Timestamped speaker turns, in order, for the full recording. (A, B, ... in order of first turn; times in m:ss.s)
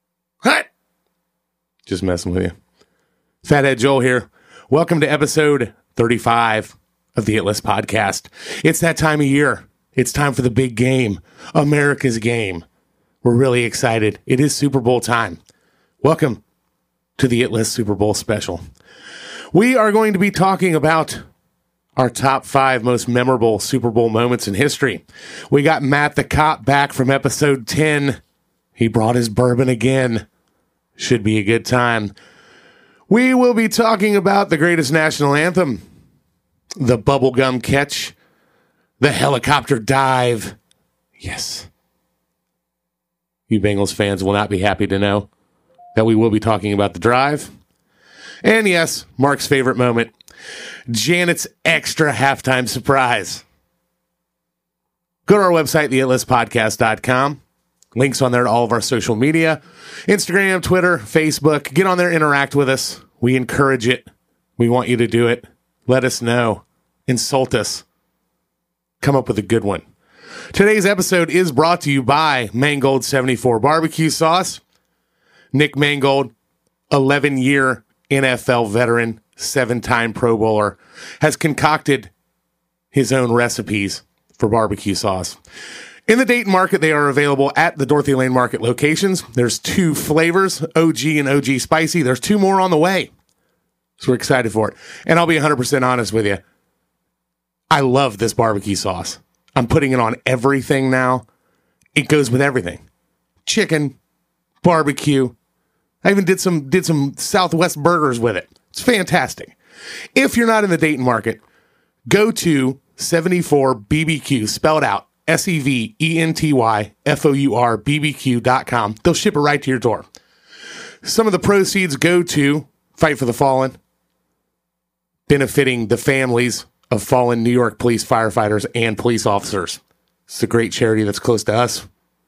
0:01.9-0:02.5 A
0:03.4-0:12.6 A
0:13.2-0:15.4 A
0:16.0-0:16.4 A
0:17.2-0:18.6 A
0:19.5-0:21.2 A
0:22.0-0:28.2 A
0:28.8-0:30.2 A
0:31.0-0:32.1 A
0:33.1-0:35.8 A
0:36.8-0:38.1 A
0:39.0-0:40.6 A
0:41.2-0:41.7 A
0:43.5-0:45.3 A
0:45.9-0:47.5 A
0:48.4-0:50.1 A
0:50.9-0:53.4 A
0:55.2-0:57.4 A
0:57.9-1:07.8 A
1:09.0-1:09.8 A
1:10.5-1:14.6 A
1:15.5-1:16.3 A
1:16.9-1:22.1 A
1:22.9-1:25.4 A
1:26.1-1:33.1 A
1:34.0-1:36.4 A
1:37.7-1:41.2 A
1:41.9-1:42.8 A
1:43.4-1:43.9 A
1:44.6-1:45.3 A
1:46.0-1:49.5 A
1:50.2-1:51.4 A
1:52.1-2:00.0 A
2:01.0-2:03.8 A
2:05.3-2:11.8 A